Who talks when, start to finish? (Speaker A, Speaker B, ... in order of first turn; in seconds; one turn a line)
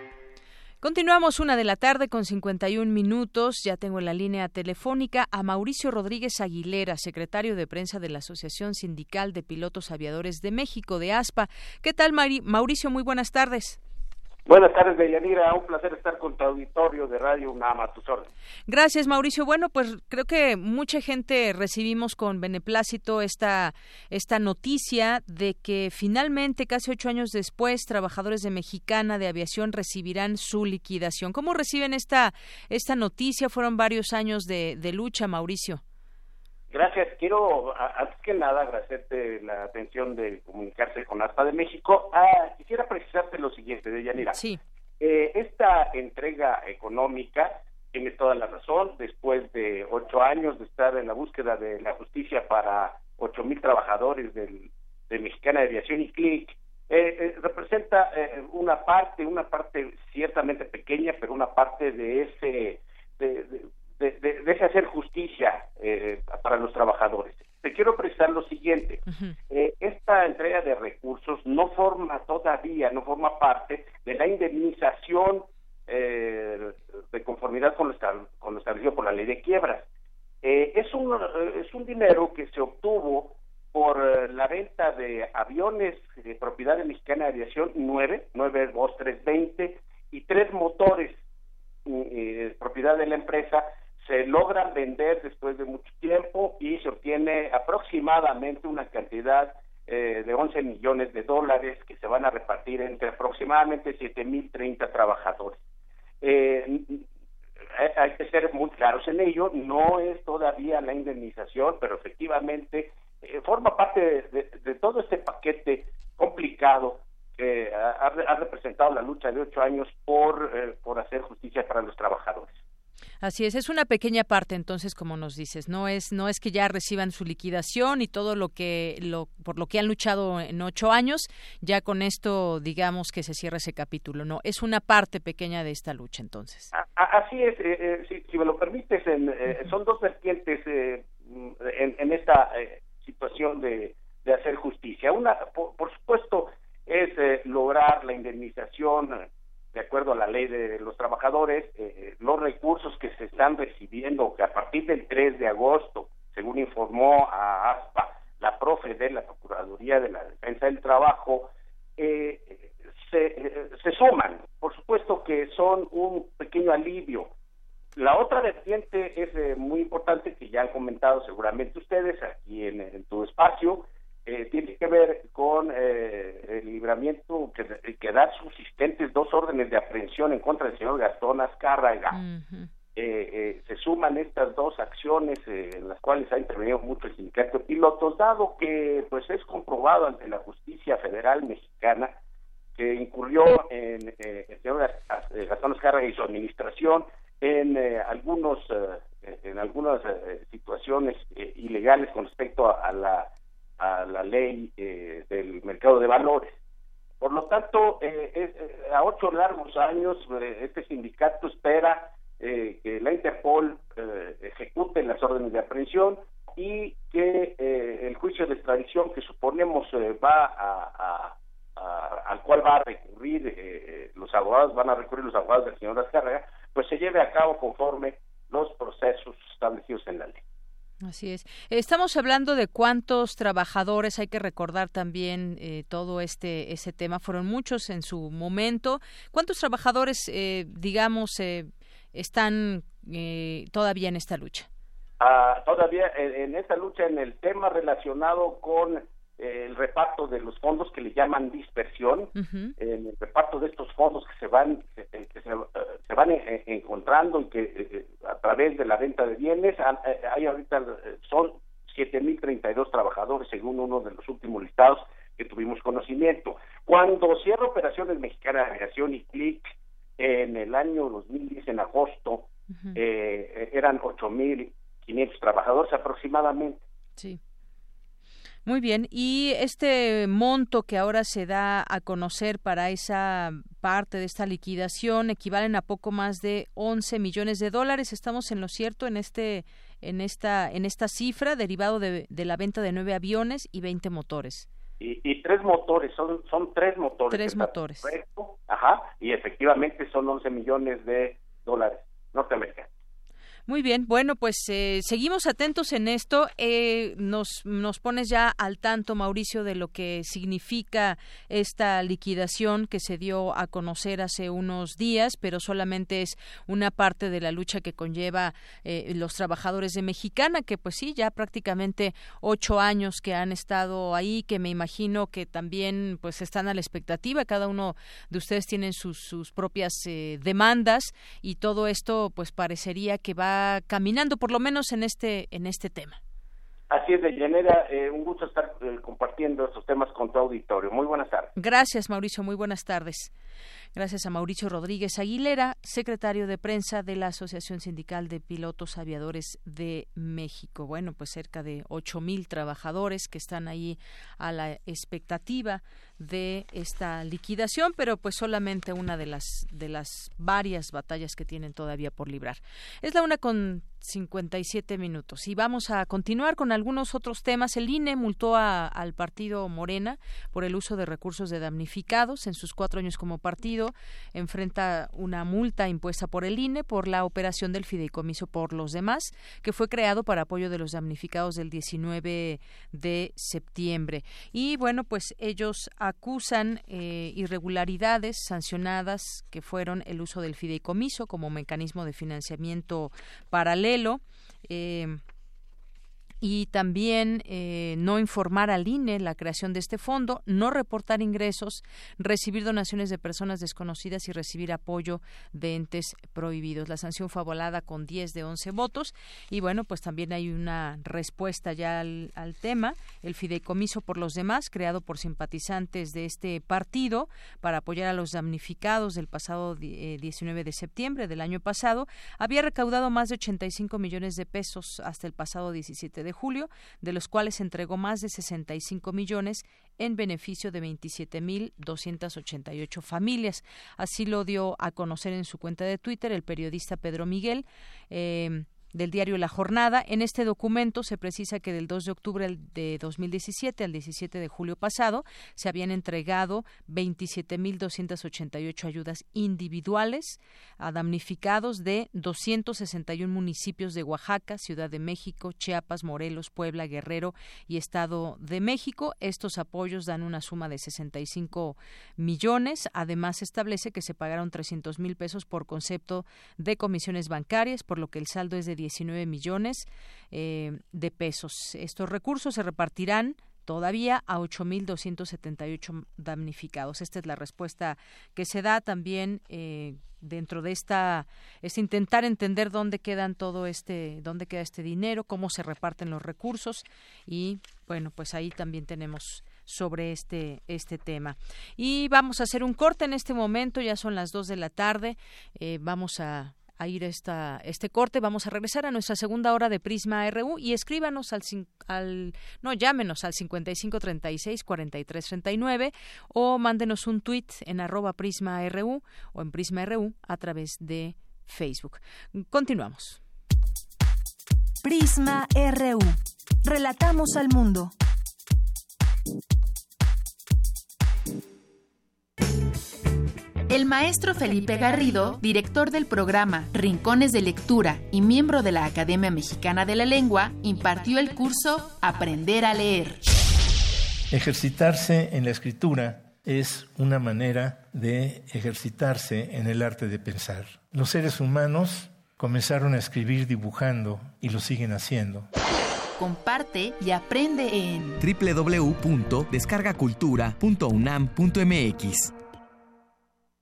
Speaker A: 0.8-13.8
Speaker B: 14.5-18.3
Speaker A: 18.7-35.8
Speaker B: 36.7-44.4
Speaker A: 44.3-44.6
Speaker B: 45.0-79.9
Speaker A: 69.1-69.3
Speaker B: 80.4-91.2
Speaker B: 91.9-105.5
Speaker B: 106.2-107.0
Speaker B: 107.8-122.5
Speaker A: 123.2-136.7
Speaker B: 136.7-149.2
Speaker B: 149.7-167.3
Speaker B: 168.0-182.2
Speaker A: 182.1-182.7
Speaker B: 183.0-192.1
Speaker B: 192.8-203.3
Speaker B: 203.8-206.6
Speaker B: 207.2-230.4
Speaker A: 231.0-244.7
Speaker B: 245.2-276.8
Speaker A: 252.4-252.7
Speaker A: 278.7-294.7
Speaker B: 295.0-302.9
Speaker A: 297.3-298.1
Speaker A: 303.7-336.2
Speaker B: 336.9-341.5
Speaker A: 341.6-343.3
Speaker A: 344.0-395.2
Speaker A: 396.4-513.2
Speaker C: 514.8-517.9
Speaker D: 523.7-533.3
Speaker E: 534.3-545.5
Speaker D: 546.2-548.2
Speaker F: 548.2-552.3